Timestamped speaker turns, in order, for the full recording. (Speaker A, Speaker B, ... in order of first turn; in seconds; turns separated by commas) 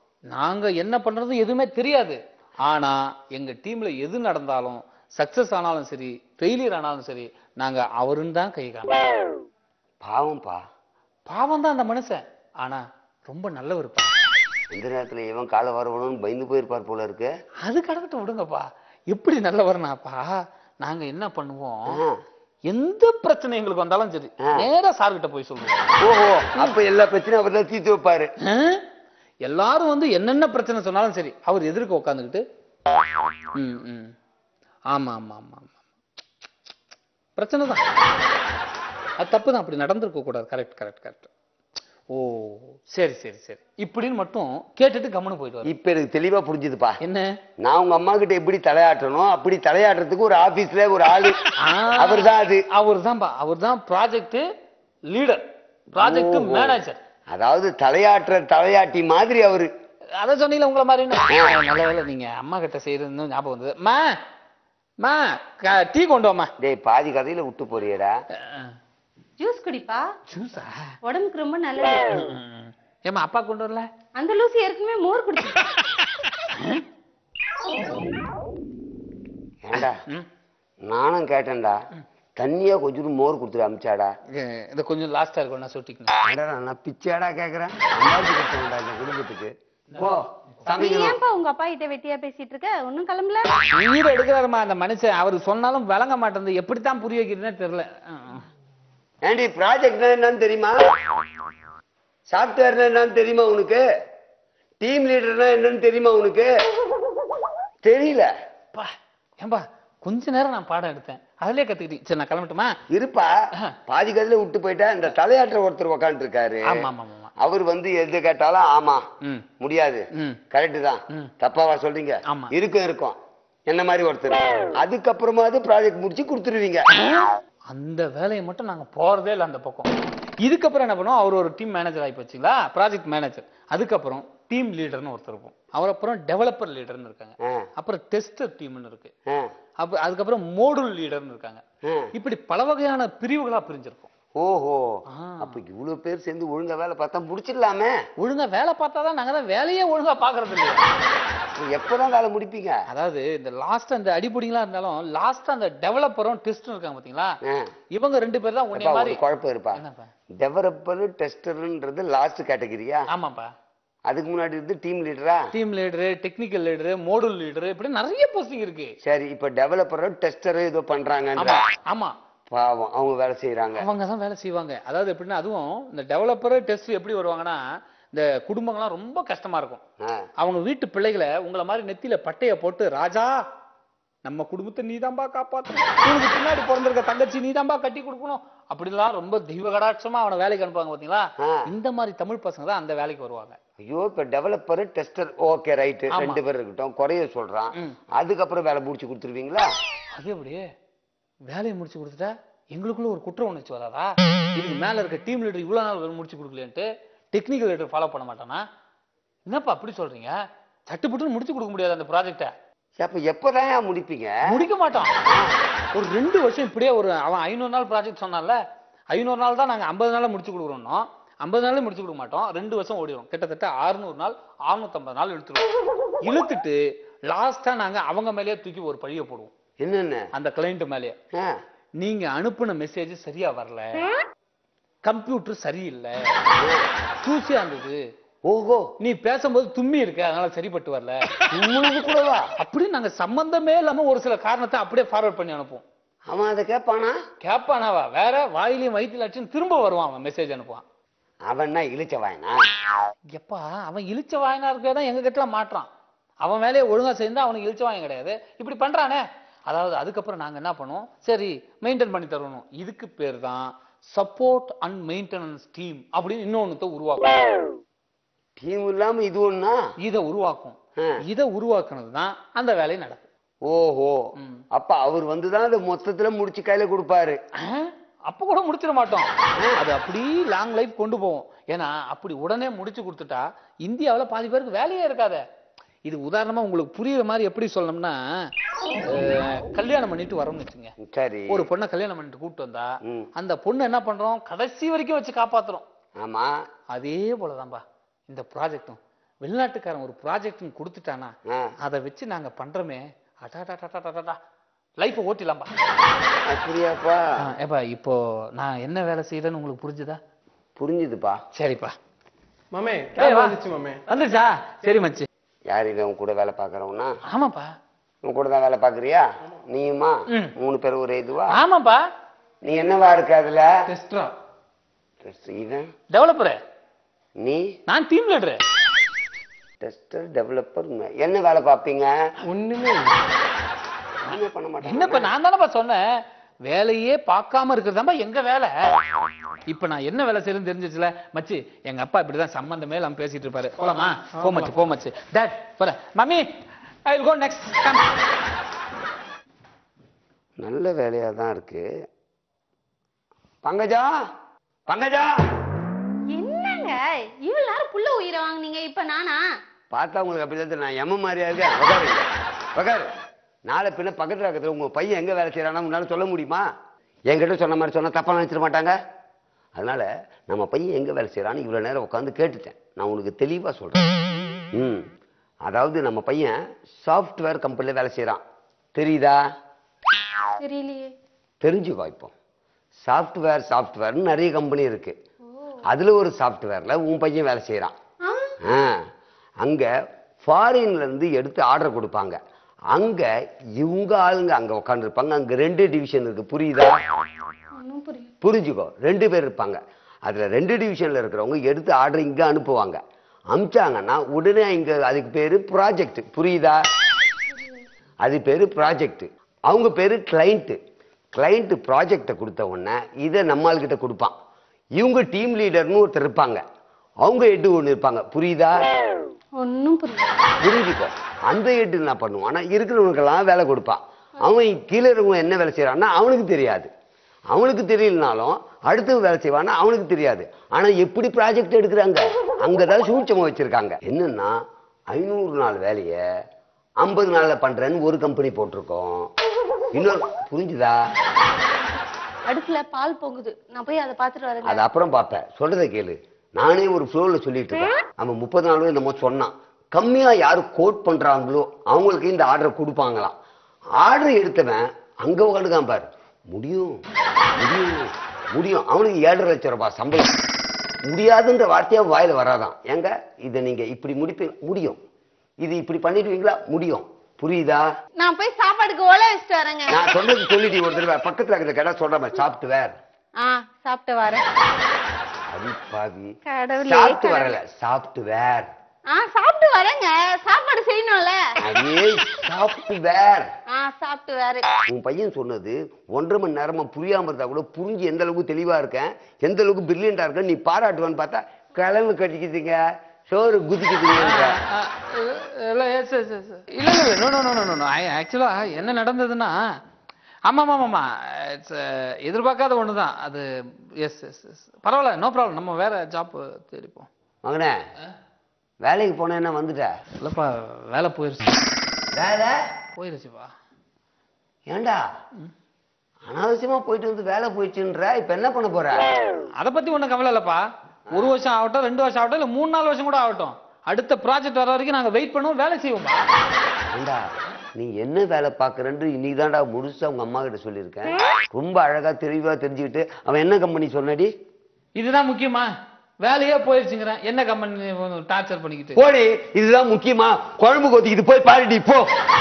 Speaker A: 0.3-9.1, Speaker B: 10.0-10.6, Speaker A: 11.3-14.1, Speaker B: 14.7-17.3, Speaker A: 17.6-22.0, Speaker B: 21.9-22.2, Speaker A: 22.7-25.8, Speaker B: 26.0-28.3, Speaker A: 28.4-28.9, Speaker A: 29.4-32.4, Speaker A: 33.5-34.1, Speaker A: 34.9-35.8, Speaker A: 37.4-37.9, Speaker A: 39.2-41.3, Speaker A: 42.1-45.7, Speaker B: 45.6-47.0, Speaker A: 47.0-47.4, Speaker B: 47.6-51.4, Speaker A: 51.6-54.5, Speaker B: 52.0-52.7, Speaker A: 55.1-55.4, Speaker A: 56.0-57.0, Speaker B: 56.0-59.7, Speaker A: 60.2-64.2, Speaker B: 61.3-61.6, Speaker A: 65.0-66.5, Speaker B: 66.6-68.2, Speaker A: 68.4-68.7, Speaker C: 69.4-70.1, Speaker A: 70.3-71.0, Speaker C: 71.0-72.1, Speaker A: 72.1-73.9, Speaker C: 74.2-75.6, Speaker A: 76.3-76.8, Speaker B: 79.6-80.0, Speaker A: 79.7-80.3, Speaker B: 80.9-81.8, Speaker B: 82.4-84.1, Speaker A: 84.3-86.2, Speaker B: 86.2-91.2, Speaker C: 90.8-93.5, Speaker A: 93.7-98.5, Speaker B: 99.2-100.8, Speaker B: 102.3-103.8, Speaker B: 104.8-106.5, Speaker B: 107.8-108.3, Speaker A: 108.7-112.7, Speaker B: 112.9-113.3, Speaker B: 113.9-116.8, Speaker A: 116.7-117.3, Speaker B: 117.4-119.0, Speaker A: 119.2-119.5, Speaker B: 119.6-123.2, Speaker A: 120.1-120.4, Speaker A: 122.3-122.5, Speaker B: 123.7-126.9, Speaker A: 126.9-139.1, Speaker A: 139.8-141.6, Speaker B: 141.8-142.1, Speaker A: 142.2-144.1, Speaker B: 144.4-148.0, Speaker A: 145.1-145.6, Speaker A: 148.2-150.9, Speaker B: 151.6-152.8, Speaker A: 152.9-157.4, Speaker A: 157.9-159.2, Speaker B: 158.7-159.8, Speaker A: 159.7-160.1, Speaker B: 160.4-163.1, Speaker A: 163.1-163.5, Speaker B: 164.1-165.5, Speaker A: 165.5-169.0, Speaker B: 169.0-171.6, Speaker A: 171.4-172.2, Speaker B: 172.5-173.9, Speaker A: 173.8-179.8, Speaker A: 180.4-183.4, Speaker A: 184.2-193.6, Speaker B: 193.8-199.7, Speaker A: 196.1-196.4, Speaker A: 200.2-200.7, Speaker A: 201.5-208.6, Speaker A: 209.4-210.4, Speaker A: 210.9-212.5, Speaker B: 213.0-214.4, Speaker A: 214.5-215.2, Speaker B: 215.2-215.6, Speaker A: 215.9-218.6, Speaker A: 219.1-225.7, Speaker A: 226.2-229.5, Speaker B: 229.8-230.3, Speaker A: 230.3-231.2, Speaker A: 232.0-234.1, Speaker A: 235.0-236.4, Speaker B: 236.6-236.9, Speaker A: 237.2-238.0, Speaker B: 238.5-238.9, Speaker A: 239.0-241.3, Speaker B: 241.5-242.5, Speaker A: 242.6-245.8, Speaker B: 246.3-247.2, Speaker A: 247.4-250.8, Speaker B: 251.5-252.6, Speaker A: 253.3-255.9, Speaker A: 256.4-267.6, Speaker B: 268.6-269.8, Speaker A: 270.0-273.3, Speaker B: 273.6-277.4, Speaker A: 274.4-274.6, Speaker A: 277.6-285.4, Speaker A: 286.0-288.2, Speaker A: 289.0-290.9, Speaker B: 291.0-291.7, Speaker A: 291.5-295.9, Speaker B: 296.2-296.5, Speaker A: 296.9-304.4, Speaker A: 305.0-305.7, Speaker B: 306.5-307.3, Speaker A: 307.4-310.2, Speaker B: 310.8-311.4, Speaker A: 311.5-312.0, Speaker D: 312.7-314.0, Speaker A: 313.1-315.3, Speaker B: 315.7-317.1, Speaker A: 317.3-317.7, Speaker B: 318.2-321.6, Speaker A: 320.3-320.6, Speaker A: 321.5-322.1, Speaker B: 322.6-323.7, Speaker A: 324.0-324.3, Speaker B: 325.2-325.9, Speaker A: 326.1-326.6, Speaker B: 327.4-327.7, Speaker A: 327.9-328.6, Speaker B: 329.8-332.1, Speaker D: 332.5-333.2, Speaker B: 334.2-335.3, Speaker A: 334.8-336.0, Speaker A: 336.6-339.0, Speaker A: 339.7-346.5, Speaker A: 347.1-348.1, Speaker B: 350.6-351.9, Speaker B: 353.6-354.1, Speaker B: 354.9-355.3, Speaker C: 356.3-359.4, Speaker B: 359.9-363.1, Speaker B: 363.7-366.6, Speaker B: 367.3-369.0, Speaker B: 369.8-374.1, Speaker B: 374.7-375.1, Speaker B: 375.6-378.4, Speaker B: 378.9-379.4, Speaker C: 380.6-381.1, Speaker B: 381.6-382.3, Speaker B: 383.1-385.1, Speaker B: 385.9-387.9, Speaker C: 388.2-388.6, Speaker B: 388.6-389.0, Speaker B: 389.6-389.9, Speaker B: 390.4-392.4, Speaker B: 392.9-397.0, Speaker C: 397.7-398.3, Speaker B: 398.4-403.0, Speaker B: 403.5-406.8, Speaker B: 408.2-410.8, Speaker B: 411.4-414.3, Speaker B: 415.0-416.6, Speaker B: 417.2-418.9, Speaker C: 419.6-420.4, Speaker B: 420.6-426.9, Speaker B: 427.5-434.6, Speaker B: 435.1-436.2, Speaker B: 437.0-439.3, Speaker B: 439.9-440.9, Speaker C: 441.8-444.8, Speaker B: 444.6-453.4, Speaker B: 454.0-457.0, Speaker B: 457.6-460.4, Speaker B: 461.1-465.0, Speaker B: 465.6-467.8, Speaker C: 468.2-470.0, Speaker B: 469.9-473.0, Speaker C: 473.4-474.4, Speaker B: 475.5-478.7, Speaker C: 476.5-477.6, Speaker C: 479.1-481.4, Speaker B: 481.6-483.5, Speaker C: 483.7-484.7, Speaker B: 484.9-494.6, Speaker A: 494.2-499.6, Speaker A: 500.5-503.5, Speaker A: 504.0-507.1, Speaker B: 507.4-507.8, Speaker B: 508.8-509.9, Speaker A: 510.2-511.6, Speaker B: 512.1-512.6, Speaker A: 513.0-513.5, Speaker B: 514.7-515.0, Speaker B: 516.3-519.1, Speaker A: 519.6-526.2, Speaker B: 521.1-521.4, Speaker B: 526.9-534.3, Speaker A: 535.0-535.7, Speaker A: 536.2-539.0, Speaker B: 539.0-542.1